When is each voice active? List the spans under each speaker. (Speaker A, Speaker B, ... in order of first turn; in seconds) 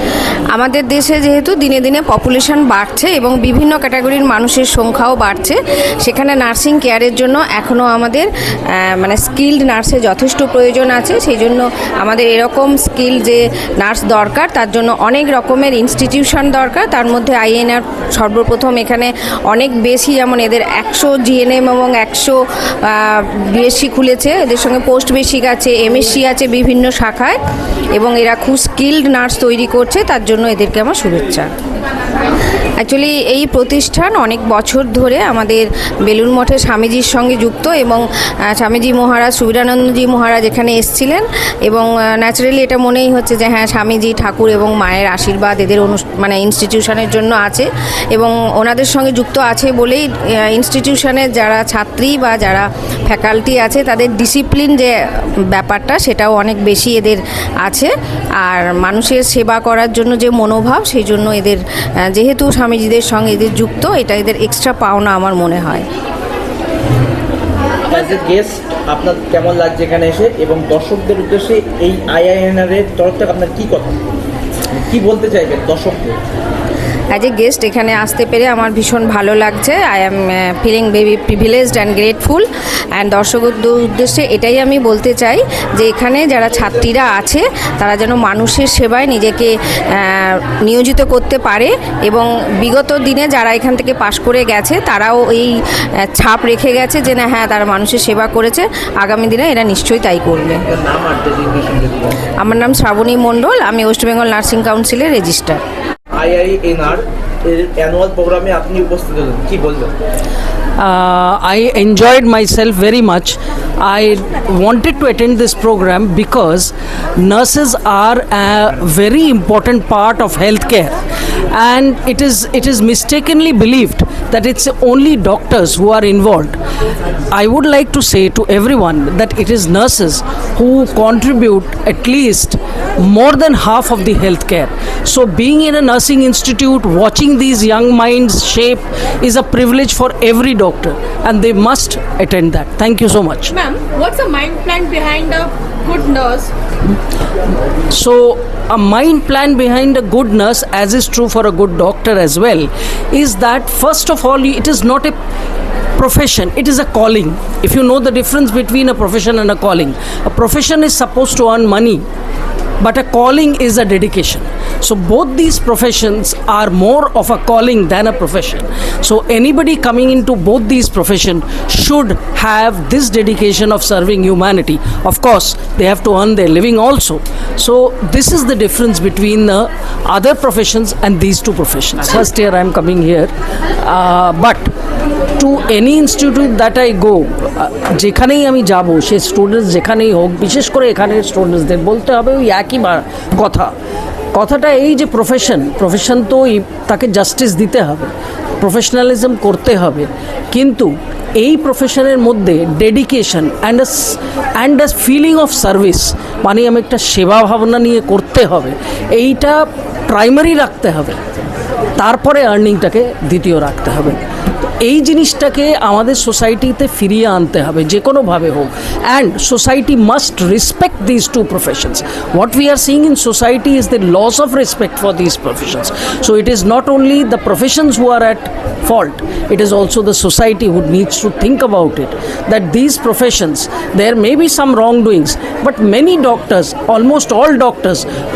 Speaker A: 0.5-27.4, 27.9-31.5, 32.8-65.9, 77.1-100.6, 102.4-105.6
Speaker B: 67.8-73.9, 74.7-76.2, 100.7-102.2, 106.1-109.9
Speaker C: 110.8-121.0, 121.5-126.6, 127.3-143.5, 147.9-155.2, 156.0-162.1, 162.8-183.3, 183.8-184.7, 185.4-193.7, 194.3-211.2, 212.0-238.1
Speaker D: 143.5-146.5